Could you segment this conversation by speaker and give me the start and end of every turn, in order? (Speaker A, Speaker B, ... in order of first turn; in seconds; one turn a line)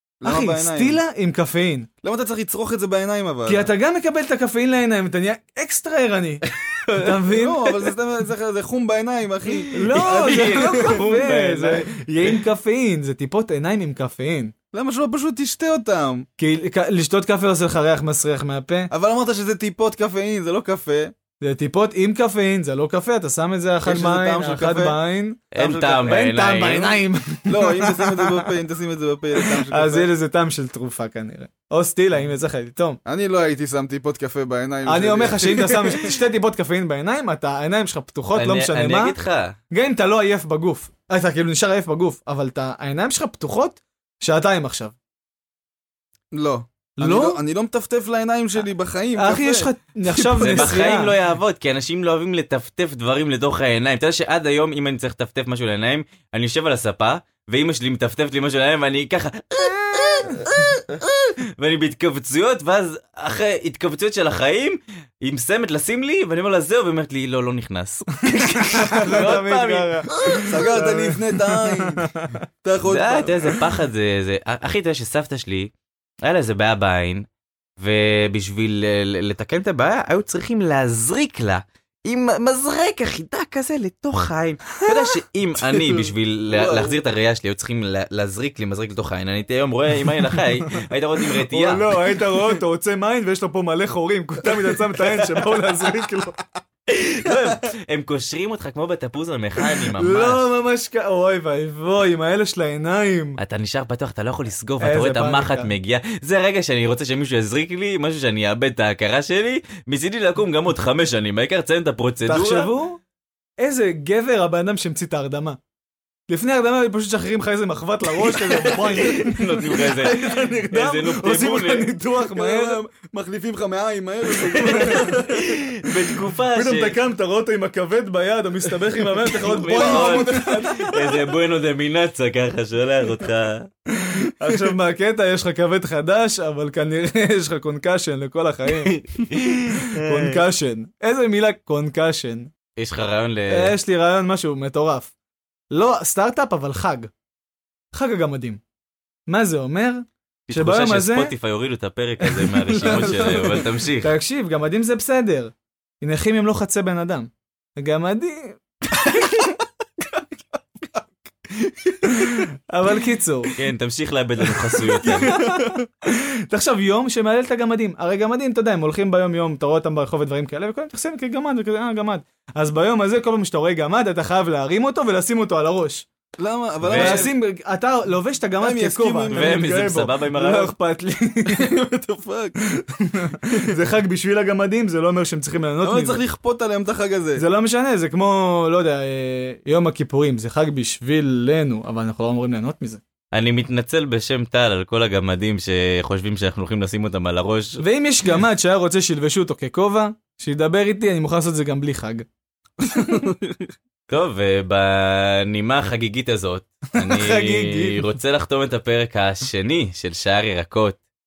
Speaker A: 0.2-1.0
Speaker B: 0.2-1.9
Speaker A: 2.0-3.7
Speaker B: 3.5-7.7
Speaker C: 6.5-7.1
Speaker A: 7.3-11.0
Speaker B: 9.7-14.5
Speaker C: 9.9-12.3
Speaker A: 14.7-16.3
Speaker B: 16.4-18.9
Speaker A: 18.9-21.1
Speaker B: 21.4-28.5
Speaker A: 23.8-25.0
Speaker C: 25.5-27.0
Speaker A: 27.5-30.1
Speaker B: 29.4-33.0
Speaker A: 33.0-36.1
Speaker B: 34.9-39.2
Speaker C: 38.4-39.5
Speaker B: 39.7-44.9
Speaker A: 46.3-50.8
Speaker B: 47.0-47.4
Speaker B: 49.1-51.1
Speaker C: 50.4-70.5
Speaker B: 60.0-60.4
Speaker B: 68.3-72.4
Speaker A: 70.4-72.1
Speaker A: 72.6-73.5
Speaker C: 72.8-75.7
Speaker C: 76.2-77.3
Speaker C: 77.8-91.9
Speaker B: 85.7-86.0
Speaker A: 86.5-86.9
Speaker B: 91.4-96.4
Speaker C: 96.9-100.5
Speaker B: 99.8-103.4
Speaker C: 103.4-112.7
Speaker B: 104.8-105.7
Speaker B: 112.3-113.0
Speaker B: 113.6-115.6
Speaker B: 116.3-122.8
Speaker C: 118.2-121.9
Speaker A: 122.3-125.4
Speaker C: 124.5-127.0
Speaker B: 124.6-125.2
Speaker B: 126.5-131.2
Speaker C: 129.3-133.7
Speaker A: 129.4-130.7
Speaker B: 134.0-142.5
Speaker C: 138.9-140.4
Speaker C: 142.8-143.8
Speaker B: 143.5-145.1
Speaker B: 145.7-147.1
Speaker B: 147.9-148.6
Speaker B: 149.3-151.3
Speaker C: 150.5-154.1
Speaker B: 152.2-159.4
Speaker B: 162.1-163.6
Speaker C: 163.6-165.4
Speaker B: 165.0-176.1
Speaker A: 176.4-177.3
Speaker C: 176.8-177.3
Speaker B: 176.9-181.8
Speaker A: 178.6-179.7
Speaker C: 179.3-180.7
Speaker A: 181.5-182.6
Speaker B: 182.8-186.2
Speaker A: 185.8-187.4
Speaker B: 187.4-193.0
Speaker C: 193.3-197.8
Speaker B: 197.8-202.3
Speaker B: 202.9-203.2
Speaker A: 202.9-203.7
Speaker C: 204.1-211.0
Speaker B: 206.9-208.2